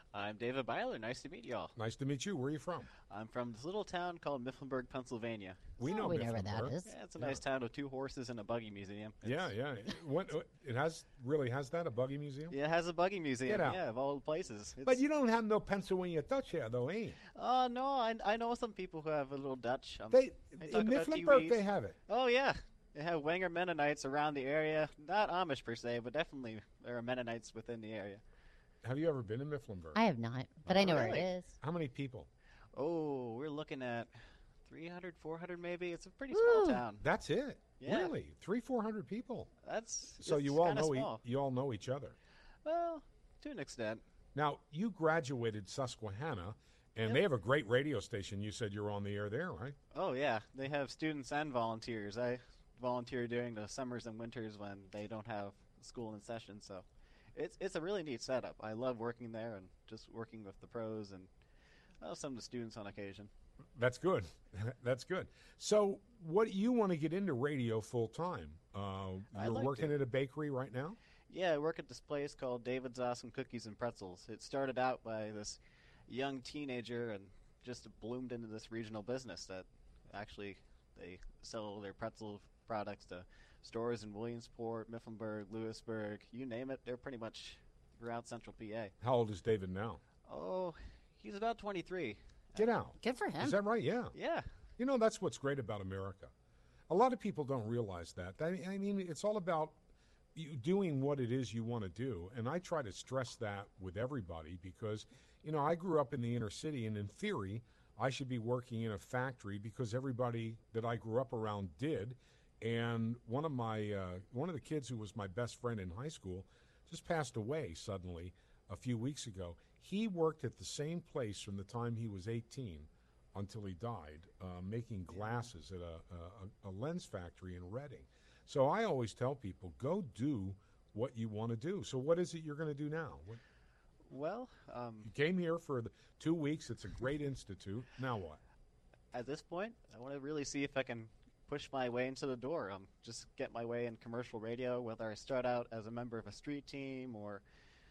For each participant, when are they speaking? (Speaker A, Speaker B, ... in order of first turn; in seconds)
Speaker A: 0.1-1.7, 3.1-5.6, 6.8-9.5, 12.5-15.0, 17.4-28.2, 30.8-31.2, 32.7-34.1, 34.7-37.0, 37.8-38.1, 39.6-41.2, 42.6-44.0, 49.9-61.3, 62.0-63.3, 69.3-69.9, 71.3-88.9, 90.3-92.7, 94.1-94.5, 134.1-135.1, 139.1-147.4
Speaker B: 1.8-2.9, 5.8-7.4, 9.2-12.5, 13.4-13.8, 14.8-17.2, 20.1-22.0, 28.8-30.0, 30.6-32.3, 37.0-39.5, 40.2-42.1, 44.3-49.8, 63.8-71.0, 89.0-90.0, 92.5-94.1, 94.8-96.3, 96.9-99.7, 100.3-133.4, 135.0-138.4
Speaker C: 5.8-6.9, 29.9-31.5, 36.3-36.8, 93.0-93.6